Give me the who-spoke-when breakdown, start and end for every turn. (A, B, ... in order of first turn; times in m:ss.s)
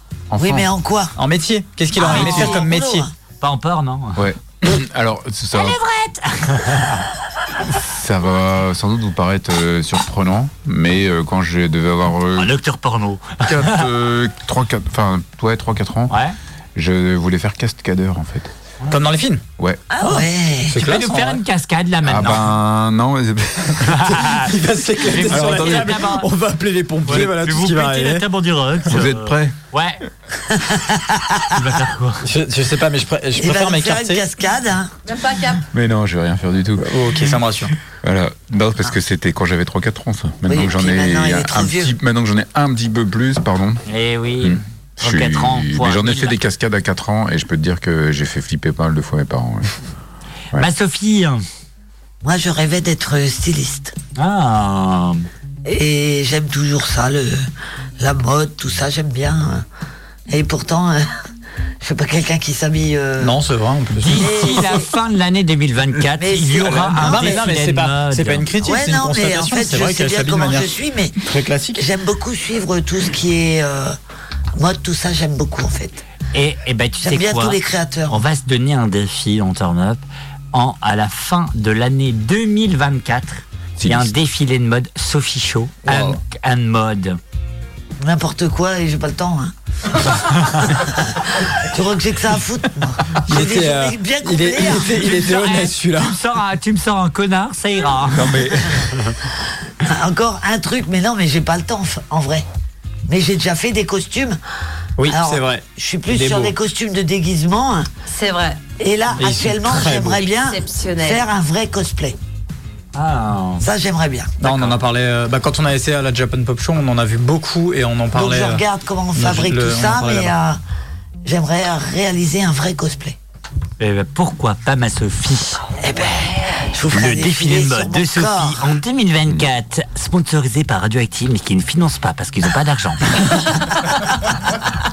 0:00.3-0:00.7 A
0:00.4-0:01.1 B
0:01.2-0:03.1 C
0:02.0-0:03.1 B
0:02.0-0:02.6 D
0:03.4-0:04.2 D
0:04.2-0:05.8 A
0:05.5-0:07.0 D
0:07.7-0:12.5 A
0:12.3-0:13.9 D
0:13.4-0:16.1 A
0:16.1-0:16.4 D
0:16.7-0:18.5 A
0:18.9-0:19.4 C
0:19.6-0:19.9 A
0:19.9-0:20.8 B
0:20.0-0:21.4 C
0:20.7-0:22.5 D
0:22.0-0:24.2 A
0:23.8-0:26.3 D
0:24.3-0:28.2 C
0:25.3-0:26.0 A
0:27.0-0:30.0 D
0:28.8-0:29.6 A
0:30.5-0:31.4 B
0:31.5-0:32.2 D
0:32.2-0:34.2 C
0:33.4-0:34.9 B
0:35.0-0:35.6 E
0:35.7-0:36.9 A
0:36.8-0:37.7 C
0:37.9-0:43.8 A
0:40.4-0:41.9 B
0:43.9-0:46.4 D
0:44.4-0:49.7 A
0:50.5-0:51.4 D
0:52.2-0:53.9 B
0:54.2-0:55.2 D
0:55.6-0:57.4 B
0:58.0-0:59.6 B
1:00.3-1:01.1 B
1:01.8-1:03.4 B
1:03.2-1:04.7 C
1:04.0-1:08.5 D
1:04.1-1:04.8 B
1:06.2-1:07.5 B
1:07.0-1:11.8 C
1:08.6-1:11.2 B
1:11.8-1:14.0 B
1:14.5-1:16.0 B
1:16.3-1:20.0 D
1:17.0-1:18.2 B
1:20.5-1:27.2 D
1:23.8-1:24.1 A
1:25.8-1:26.2 C
1:28.0-1:30.0 B
1:30.6-1:35.0 B
1:33.2-1:36.2 C
1:34.7-1:38.4 D
1:38.1-1:39.1 A
1:39.8-1:42.4 B
1:43.1-1:44.4 B
1:45.0-1:46.5 C
1:45.0-1:47.9 B
1:48.1-1:48.6 E
1:48.8-1:52.2 B
1:49.2-1:50.2 C
1:50.1-1:51.2 E
1:52.9-1:53.6 D
1:53.6-1:54.3 B
1:54.4-1:58.6 C
1:54.4-1:54.8 D
1:58.1-2:00.6 B
1:59.1-2:00.3 C
2:01.2-2:03.2 B
2:03.8-2:05.6 D
2:05.8-2:08.7 B
2:06.8-2:14.1 D